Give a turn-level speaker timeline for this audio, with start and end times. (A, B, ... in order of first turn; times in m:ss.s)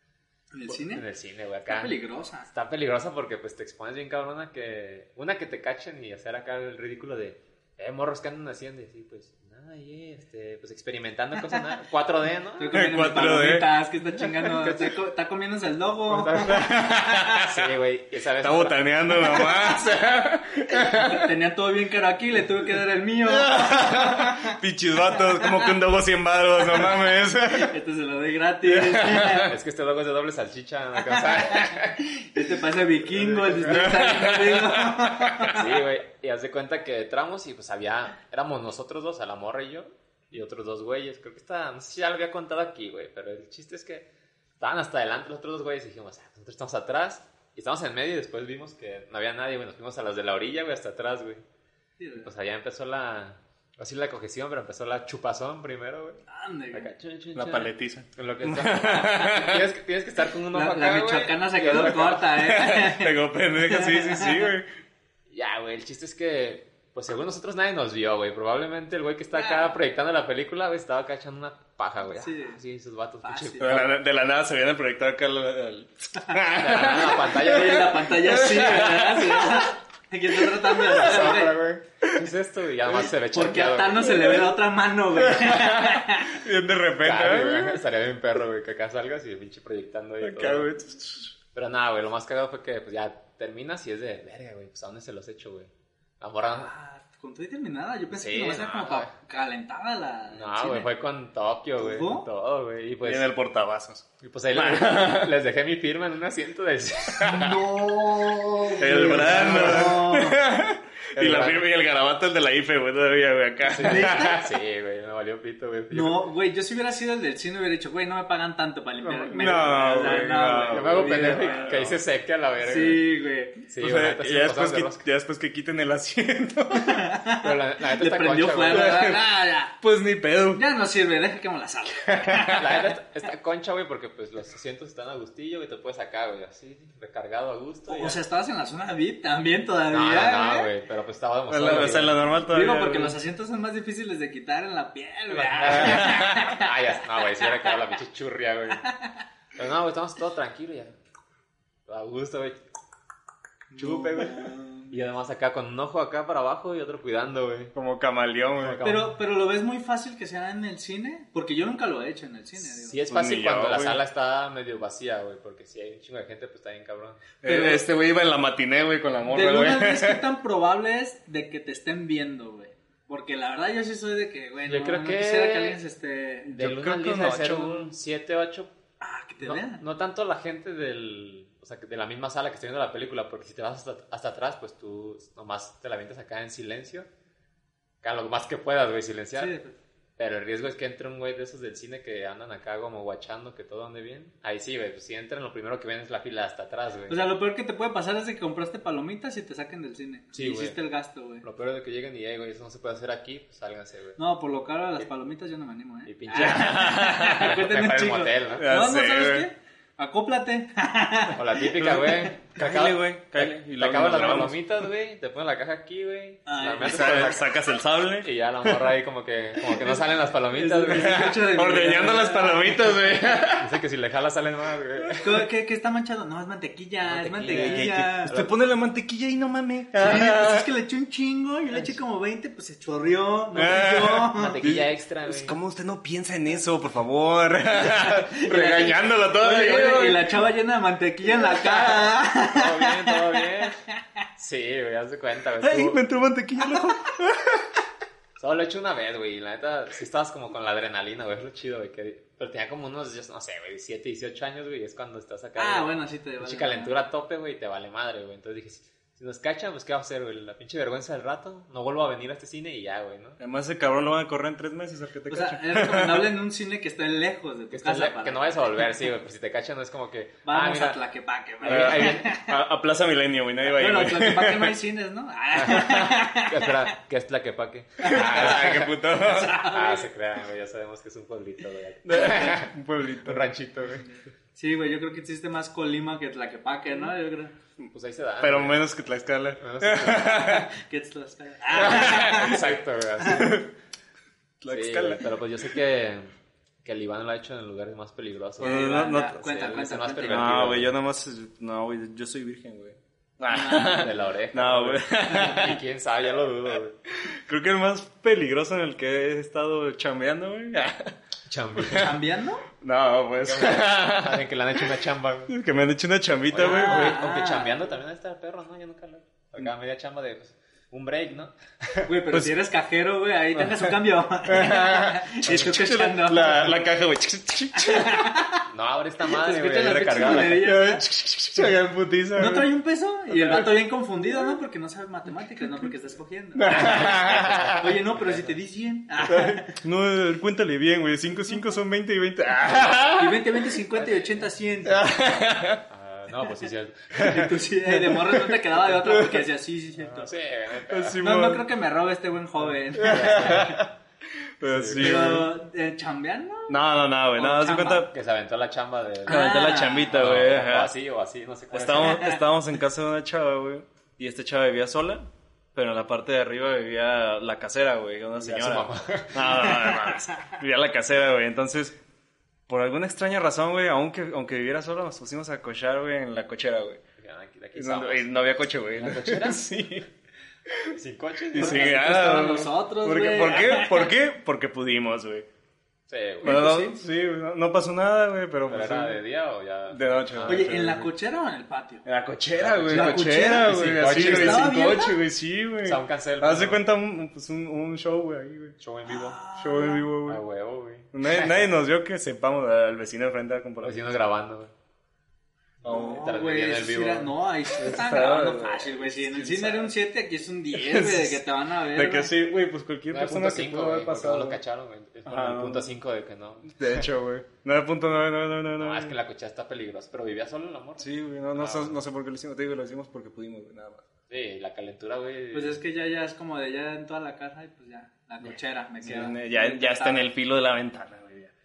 0:00.5-0:01.1 A
0:00.7-0:01.9 B
0:01.7-0:02.5 A
0:02.5-0:12.8 B
0:12.6-0:17.5 A
0:12.7-0:13.8 C
0:14.6-0:15.0 B
0:16.1-0:16.8 B
0:16.5-0:17.5 C
0:17.4-0:18.9 B
0:18.4-0:21.3 C
0:20.7-0:24.6 A
0:23.3-0:27.8 C
0:25.1-0:25.7 A
0:27.5-0:29.5 A
0:28.7-0:29.5 C
0:29.5-0:32.0 B
0:31.1-0:35.6 A
0:33.2-0:35.5 C
0:35.5-0:44.1 B
0:44.6-0:51.4 B
0:52.0-0:52.3 A
0:52.2-1:02.2 B
0:56.3-0:56.9 A
0:57.3-0:59.6 C
1:00.5-1:04.5 A
1:01.7-1:04.7 C
1:05.3-1:14.0 B
1:09.3-1:09.7 A
1:12.2-1:12.6 A
1:13.2-1:13.9 A
1:13.6-1:19.6 C
1:16.6-1:19.1 B
1:17.1-1:21.6 A
1:20.5-1:21.0 C
1:20.8-1:24.3 B
1:23.3-1:26.4 A
1:24.1-1:24.4 C
1:25.2-1:27.8 C
1:27.0-1:30.7 B
1:30.2-1:31.3 C
1:31.5-1:36.7 B
1:36.5-1:40.9 A
1:38.1-1:39.1 B
1:40.3-1:43.3 B
1:41.8-1:42.3 A
1:43.0-1:45.3 C
1:44.2-1:47.8 B
1:47.2-1:54.2 C
1:47.4-1:50.4 A
1:49.5-1:49.8 B
1:51.2-1:51.7 B
1:53.6-1:56.3 B
1:53.8-1:54.4 A
1:55.9-2:01.8 A
1:59.0-2:02.0 C
2:00.1-2:03.1 B
2:02.6-2:03.6 A
2:03.6-2:05.0 B
2:03.8-2:07.1 C
2:06.8-2:09.8 A
2:07.4-2:09.0 B
2:08.6-2:10.6 C
2:10.6-2:12.9 A
2:12.1-2:12.6 C
2:12.5-2:18.2 B
2:17.9-2:20.7 A
2:19.9-2:22.2 B
2:21.5-2:23.2 C
2:22.5-2:26.7 A
2:25.3-2:28.8 B
2:25.8-2:26.4 C
2:27.3-2:27.8 A
2:28.8-2:29.2 A
2:29.6-2:31.0 B
2:31.9-2:32.6 B
2:33.7-2:35.0 A
2:33.8-2:37.7 B
2:37.7-2:38.8 C
2:38.6-2:39.2 B
2:38.8-2:43.0 A
2:42.7-2:47.2 B
2:43.1-2:44.0 C
2:47.4-2:50.2 C
2:47.4-2:47.9 A
2:49.3-2:56.5 A
2:54.7-2:55.8 B
2:56.5-2:57.9 C
2:56.6-2:58.7 B
2:59.0-2:59.8 A
2:59.4-3:07.1 B
3:08.0-3:09.5 B
3:09.4-3:09.8 A
3:10.2-3:17.2 B
3:17.1-3:21.4 A
3:20.3-3:20.8 B
3:21.4-3:24.2 B
3:24.2-3:31.4 A
3:26.1-3:28.7 B
3:26.4-3:27.5 C
3:28.6-3:29.5 C
3:31.4-3:37.6 B
3:31.7-3:34.6 C
3:36.5-3:37.4 A
3:36.8-3:38.8 C
3:38.2-3:41.3 B
3:39.8-3:43.0 A
3:40.8-3:43.7 C
3:43.6-3:45.2 B
3:45.2-3:48.3 A
3:47.0-3:48.5 B
3:47.5-3:50.7 C
3:50.0-3:54.6 A
3:53.6-4:00.5 C
3:54.4-3:55.6 B
3:58.2-4:03.5 A
4:02.3-4:03.8 B
4:04.4-4:06.0 B
4:05.6-4:07.7 C
4:08.4-4:23.4 B
4:15.6-4:16.9 A
4:23.4-4:26.3 C
4:25.3-4:28.8 A
4:27.7-4:31.0 B
4:30.4-4:32.5 A
4:31.6-4:32.3 B
4:31.6-4:34.8 C
4:33.7-4:36.9 A
4:35.6-4:39.0 B
4:38.0-4:40.1 A
4:38.0-4:39.6 C
4:39.7-4:42.7 B
4:42.0-4:43.5 C
4:42.1-4:42.6 A
4:43.2-4:44.1 B
4:44.0-4:47.5 A
4:47.8-4:48.9 B
4:48.4-4:50.7 C
4:49.6-4:50.7 B
4:50.4-4:52.7 A
4:51.7-4:53.6 B
4:53.2-4:53.7 C
4:54.6-4:55.4 C
4:54.7-4:56.3 B
4:56.8-5:01.0 B
4:58.6-5:00.7 A
4:58.6-4:59.4 C
5:00.3-5:05.8 C
5:03.5-5:04.1 A
5:03.7-5:07.0 B
5:05.3-5:05.6 A
5:07.3-5:11.1 C
5:11.5-5:12.2 B
5:11.8-5:12.2 C
5:11.9-5:12.7 A
5:12.8-5:14.9 C
5:13.4-5:15.6 B
5:15.5-5:17.2 C
5:16.5-5:22.1 B
5:16.6-5:17.9 A
5:22.0-5:26.7 A
5:23.6-5:28.3 C
5:27.8-5:28.7 A
5:28.7-5:30.8 B
5:29.3-5:31.0 A
5:30.2-5:32.7 C
5:32.4-5:39.8 A
5:33.3-5:33.7 C
5:36.6-5:37.8 C
5:36.8-5:38.6 B
5:39.3-5:43.5 C
5:43.2-5:45.1 A
5:44.0-5:44.3 B
5:44.9-5:45.8 C
5:45.9-5:47.5 B
5:47.2-5:50.3 A
5:47.2-5:49.5 C
5:50.0-5:51.2 B
5:50.9-5:51.6 C
5:51.2-5:53.8 A
5:53.0-5:53.9 C
5:53.1-5:53.8 B
5:54.6-5:55.5 C
5:54.6-5:55.4 B
5:55.0-5:56.8 A
5:56.7-5:58.1 C
5:57.3-5:58.1 A
5:58.1-5:59.5 B
5:59.3-6:00.2 A
5:59.3-6:00.9 C
6:00.1-6:02.3 B
6:01.7-6:05.2 C
6:01.9-6:02.4 A
6:05.8-6:12.0 C
6:08.4-6:09.7 B
6:09.7-6:10.0 A
6:12.7-6:17.0 C
6:17.2-6:18.3 B
6:17.8-6:20.1 C
6:18.9-6:19.7 B
6:20.7-6:21.0 C
6:20.9-6:22.0 B
6:21.5-6:25.5 C
6:21.6-6:24.1 A
6:26.1-6:26.6 B
6:26.4-6:29.2 C
6:26.4-6:27.0 A
6:28.7-6:30.8 B
6:29.9-6:31.1 C
6:30.5-6:32.0 A
6:32.1-6:38.8 C
6:32.6-6:34.8 B
6:32.9-6:35.2 A
6:35.8-6:36.8 B
6:38.8-6:39.4 B
6:39.0-6:40.1 A
6:39.6-6:40.4 C
6:40.3-6:41.7 B
6:41.1-6:44.0 C
6:43.8-6:44.7 B
6:45.8-6:47.3 B
6:45.8-6:46.3 C
6:45.9-6:52.3 A
6:47.8-6:49.9 C
6:50.7-6:54.6 C
6:53.1-6:57.1 B
6:55.3-6:55.9 C
6:56.8-6:59.1 C
6:58.8-7:02.0 B
7:01.0-7:04.0 C
7:04.3-7:05.8 B
7:05.5-7:10.3 A
7:09.0-7:11.5 C